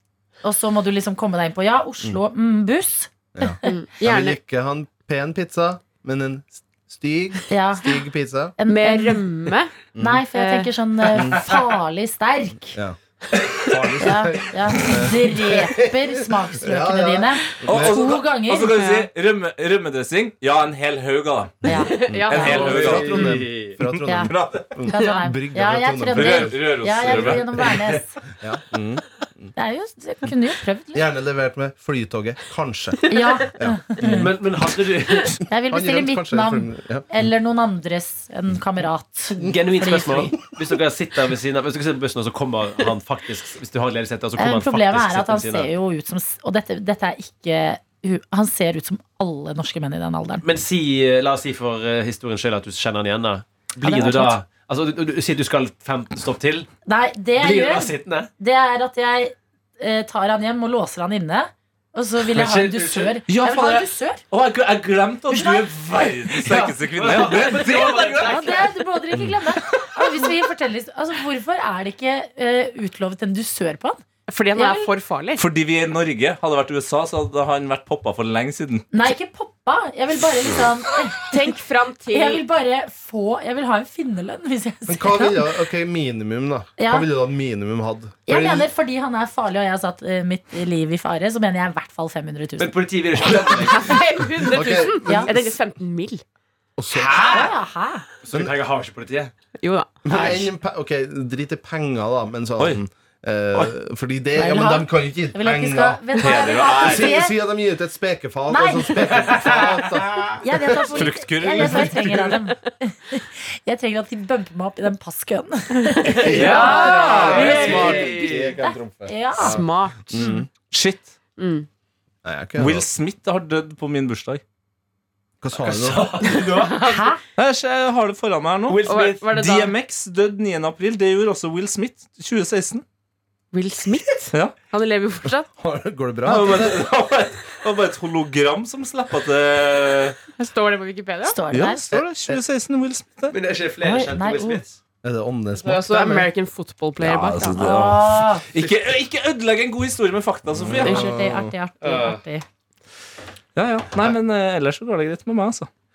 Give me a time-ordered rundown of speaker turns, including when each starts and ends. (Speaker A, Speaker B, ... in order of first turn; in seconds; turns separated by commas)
Speaker A: 0.4-4.3, Speaker B: 3.4-8.6, Speaker C: 3.6-4.1, Speaker A: 7.5-7.9, Speaker A: 8.6-9.2, Speaker C: 8.7-9.7, Speaker B: 9.9-10.2, Speaker A: 9.9-12.8, Speaker C: 10.3-10.7, Speaker B: 11.2-11.4, Speaker B: 13.5-18.2, Speaker A: 14.0-18.9, Speaker D: 17.6-23.4, Speaker A: 21.6-22.0, Speaker B: 21.6-27.4, Speaker C: 21.9-22.6, Speaker E: 22.3-23.8, Speaker A: 24.1-28.2, Speaker D: 24.3-24.7, Speaker D: 26.1-27.4, Speaker B: 28.4-29.5, Speaker A: 29.5-31.1, Speaker B: 30.9-34.3, Speaker A: 33.1-34.1, Speaker E: 34.0-35.4, Speaker A: 35.5-40.4, Speaker B: 35.7-37.0, Speaker E: 39.4-45.7, Speaker A: 44.4-50.4, Speaker E: 50.4-56.7, Speaker A: 53.8-54.4, Speaker A: 56.9-64.2, Speaker E: 57.4-58.3, Speaker E: 62.3-63.2, Speaker D: 63.3-68.5, Speaker A: 65.3-65.7, Speaker E: 66.3-68.7, Speaker A: 68.2-74.0, Speaker C: 74.3-75.4, Speaker A: 74.5-74.9, Speaker D: 75.4-78.9, Speaker A: 78.9-81.5, Speaker C: 81.3-82.4, Speaker A: 82.1-85.6, Speaker B: 84.9-88.7, Speaker A: 86.8-87.1, Speaker A: 88.2-93.4, Speaker E: 92.6-94.5, Speaker C: 93.7-96.2, Speaker B: 94.5-95.3, Speaker A: 94.9-95.3, Speaker B: 96.8-97.5, Speaker E: 96.9-97.5, Speaker A: 97.2-98.0, Speaker E: 98.2-99.3, Speaker B: 98.3-98.5, Speaker C: 99.6-100.5, Speaker B: 100.0-111.9, Speaker A: 104.3-107.3, Speaker D: 106.2-107.2, Speaker A: 108.5-109.4, Speaker A: 110.4-118.0, Speaker D: 110.9-112.3, Speaker C: 115.9-118.2, Speaker D: 116.1-118.3, Speaker B: 116.2-120.5, Speaker E: 116.3-118.6, Speaker A: 118.6-119.6, Speaker C: 119.3-120.3, Speaker A: 120.1-120.4, Speaker D: 120.7-121.2, Speaker C: 121.4-121.7, Speaker B: 122.2-122.9, Speaker D: 122.6-124.4, Speaker B: 125.4-126.1, Speaker E: 125.6-126.9, Speaker C: 126.4-127.1, Speaker A: 126.8-127.2, Speaker D: 127.4-132.8, Speaker E: 128.7-129.2, Speaker C: 128.8-129.7, Speaker C: 133.5-135.5, Speaker B: 135.5-136.9, Speaker D: 136.2-140.2, Speaker C: 140.4-141.4, Speaker A: 141.2-141.9, Speaker D: 141.5-143.4, Speaker B: 141.5-142.4, Speaker E: 143.3-144.8, Speaker A: 143.8-144.6, Speaker B: 145.0-146.3, Speaker C: 145.6-147.8, Speaker D: 147.0-151.1, Speaker A: 147.6-148.5, Speaker B: 150.5-151.6, Speaker A: 150.8-152.4, Speaker E: 151.8-152.2, Speaker D: 153.5-155.7